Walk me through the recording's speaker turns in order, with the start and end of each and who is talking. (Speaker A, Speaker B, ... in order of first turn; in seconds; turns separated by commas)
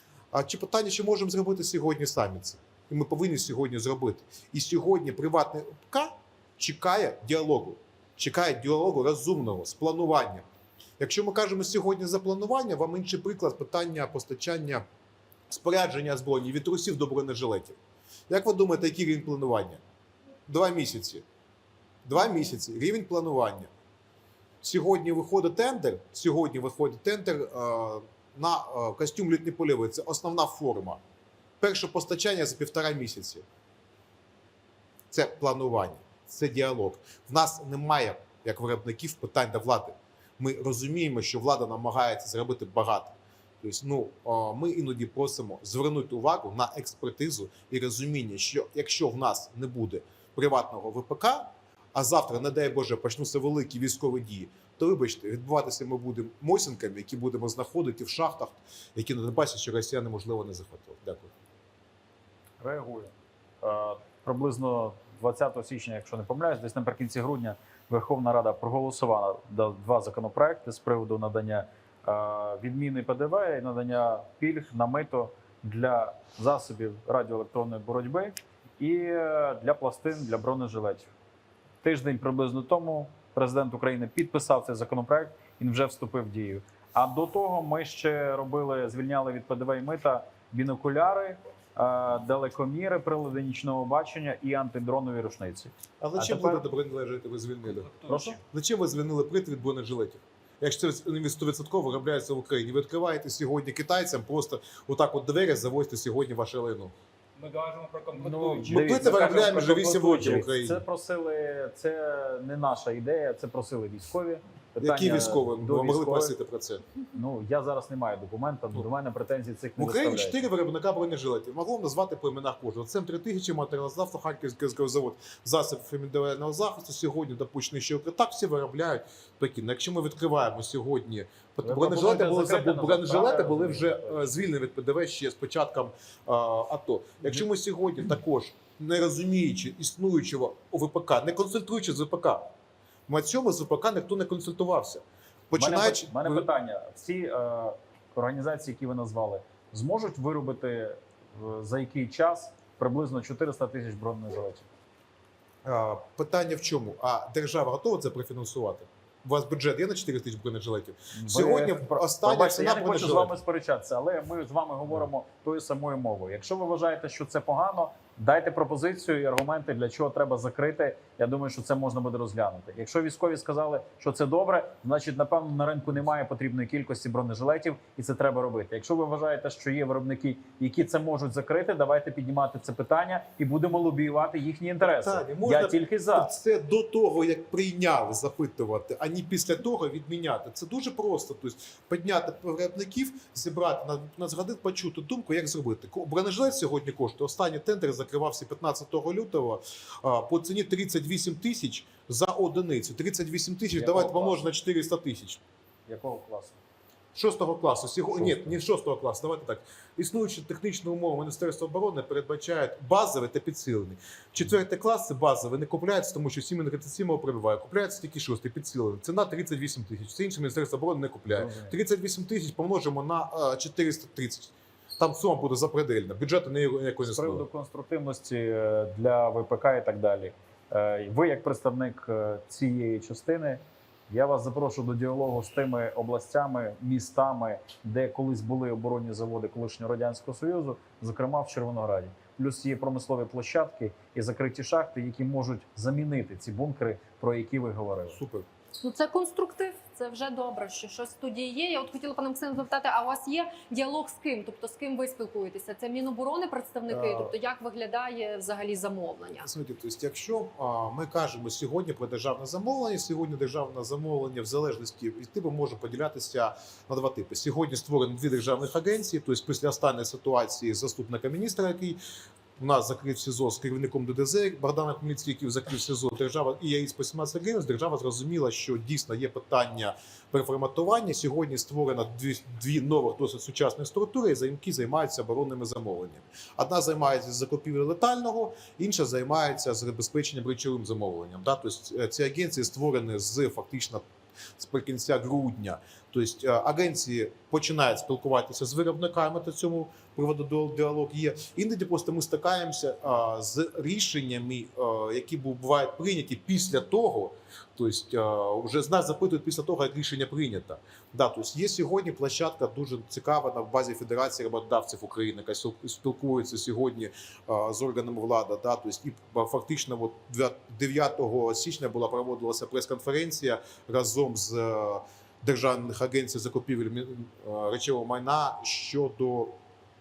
Speaker A: 0.3-10.4, Speaker A: 11.0-14.8, Speaker A: 15.5-17.8, Speaker A: 18.3-19.8, Speaker A: 20.5-21.2, Speaker A: 22.0-23.7, Speaker A: 24.6-31.0, Speaker A: 31.6-33.4, Speaker A: 35.1-61.3, Speaker B: 62.6-81.1, Speaker B: 81.8-96.6, Speaker A: 96.0-106.9, Speaker C: 97.7-98.3, Speaker B: 98.1-98.4, Speaker C: 107.3-110.4, Speaker B: 108.1-116.3, Speaker A: 108.7-110.8, Speaker A: 114.8-116.8, Speaker B: 117.1-120.4, Speaker A: 119.8-142.5, Speaker B: 131.6-134.4, Speaker A: 143.1-146.5, Speaker B: 145.5-154.7, Speaker A: 155.6-163.3, Speaker B: 161.2-186.3, Speaker A: 184.8-205.4, Speaker B: 203.7-204.4, Speaker B: 205.9-206.6, Speaker A: 207.1-227.4, Speaker B: 208.1-208.6, Speaker B: 221.3-221.7, Speaker B: 227.0-248.2, Speaker A: 248.1-248.5, Speaker D: 248.8-259.5, Speaker A: 256.9-257.3, Speaker A: 259.4-272.0, Speaker A: 272.6-294.0, Speaker A: 294.6-329.6